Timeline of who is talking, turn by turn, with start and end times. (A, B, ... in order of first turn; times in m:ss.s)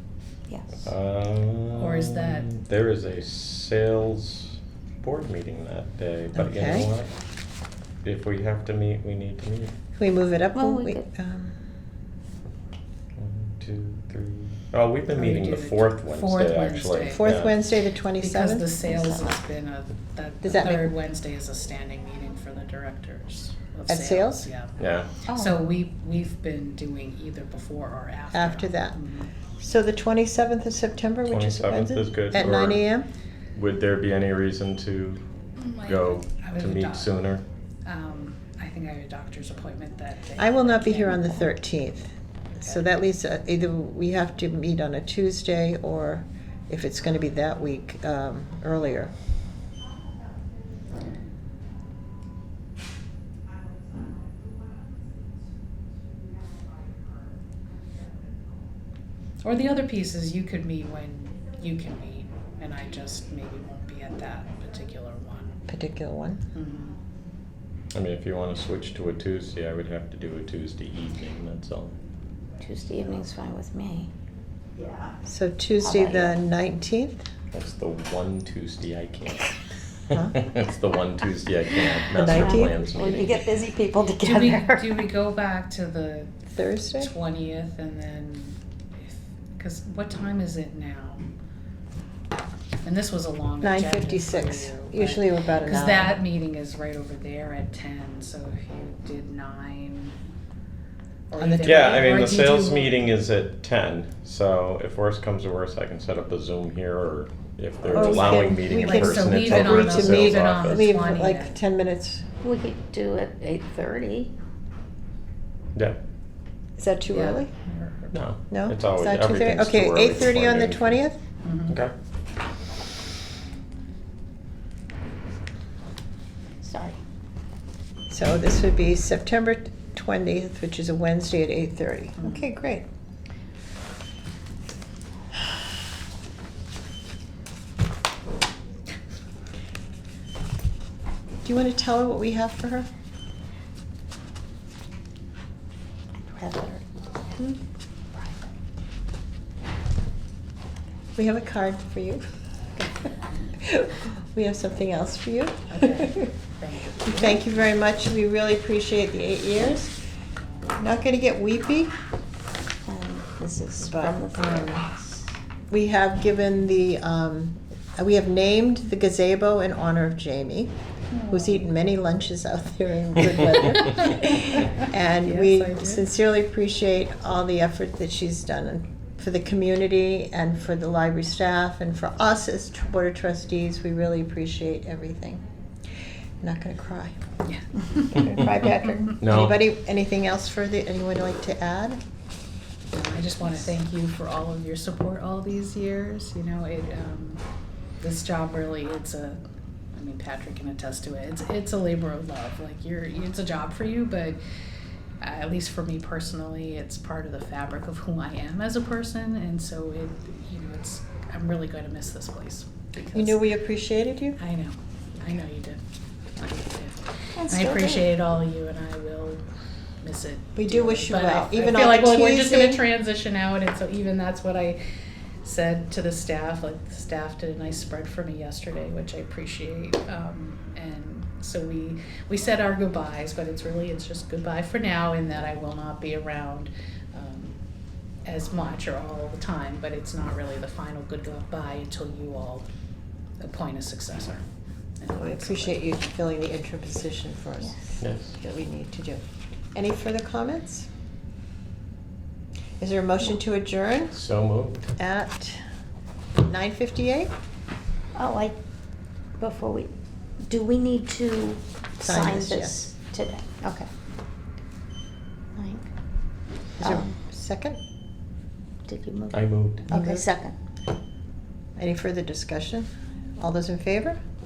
0:00.5-0:00.9 A
0:00.8-0:07.1 B
0:01.8-0:02.5 C
0:06.4-0:06.9 D
0:08.0-0:09.7 B
0:10.0-0:11.6 D
0:10.5-0:11.0 A
0:13.2-0:17.6 B
0:15.1-0:17.5 C
0:17.1-0:18.7 D
0:18.2-0:29.3 C
0:18.9-0:19.4 A
0:20.4-0:20.9 D
0:23.9-0:24.5 D
0:24.8-0:25.2 B
0:25.3-0:25.6 A
0:28.3-0:29.0 D
0:29.6-0:33.1 D
0:31.3-0:32.9 B
0:33.6-0:37.4 B
0:35.6-0:37.2 C
0:37.9-0:41.4 C
0:40.4-0:49.1 D
0:59.4-1:05.6 C
1:05.7-1:06.4 D
1:06.5-1:07.0 C
1:07.9-1:12.0 B
1:12.6-1:14.1 A
1:15.2-1:17.3 D
1:15.8-1:16.3 A
1:17.5-1:23.5 B
1:22.1-1:22.8 D
1:22.2-1:25.0 A
1:24.2-1:26.3 C
1:26.5-1:27.1 D
1:27.0-1:31.2 C
1:32.8-1:40.2 C
1:33.6-1:36.2 D
1:41.3-1:43.0 C
1:41.4-1:42.4 D
1:41.6-1:50.9 B
1:47.9-1:52.3 D
1:47.9-1:51.6 C
1:52.4-1:54.3 A
1:56.8-1:57.5 D
1:57.1-1:58.2 C
1:58.1-2:01.0 B
1:58.5-2:01.2 D
2:01.4-2:01.8 C
2:01.7-2:01.9 B
2:06.6-2:07.0 A
2:08.1-2:12.8 D
2:12.2-2:12.5 C
2:21.4-2:22.9 D
2:26.3-2:26.8 A
2:31.2-2:32.2 D
2:33.5-2:36.3 D
2:35.7-2:37.4 C
2:37.0-2:40.0 D
2:40.8-2:41.9 D
2:42.9-2:45.3 A
2:43.4-2:44.9 D
2:45.7-2:50.7 D
2:51.2-2:51.5 C
2:51.3-3:05.4 D
2:55.2-2:56.1 C
3:06.4-3:07.2 D
3:07.5-3:08.3 C
3:08.1-3:12.0 D
3:09.2-3:09.6 B
3:12.9-3:17.4 C
3:18.0-3:19.4 C
3:19.9-3:24.4 C
3:25.2-3:33.4 C
3:33.1-3:34.4 D
3:34.4-3:35.8 C
3:36.4-3:39.4 C
3:37.4-3:38.1 A
3:40.0-3:44.8 C
3:40.6-3:42.8 D
3:45.4-3:57.6 C
3:58.2-4:02.7 C
4:03.4-4:04.4 C
4:05.0-4:05.8 C
4:05.1-4:09.2 D
4:07.6-4:07.9 A
4:08.0-4:08.4 B
4:09.8-4:10.9 D
4:12.8-4:14.2 D
4:14.1-4:14.9 B
4:15.0-4:15.6 D
4:16.4-4:17.3 D
4:18.2-4:18.6 A
4:19.4-4:19.9 A
4:20.5-4:23.9 A
4:22.0-4:22.8 D
4:25.6-4:25.9 A
4:26.8-4:27.8 D
4:26.8-4:27.2 A
4:28.9-4:30.6 A
4:29.3-4:29.8 B
4:29.9-4:30.2 D
4:31.8-4:34.2 D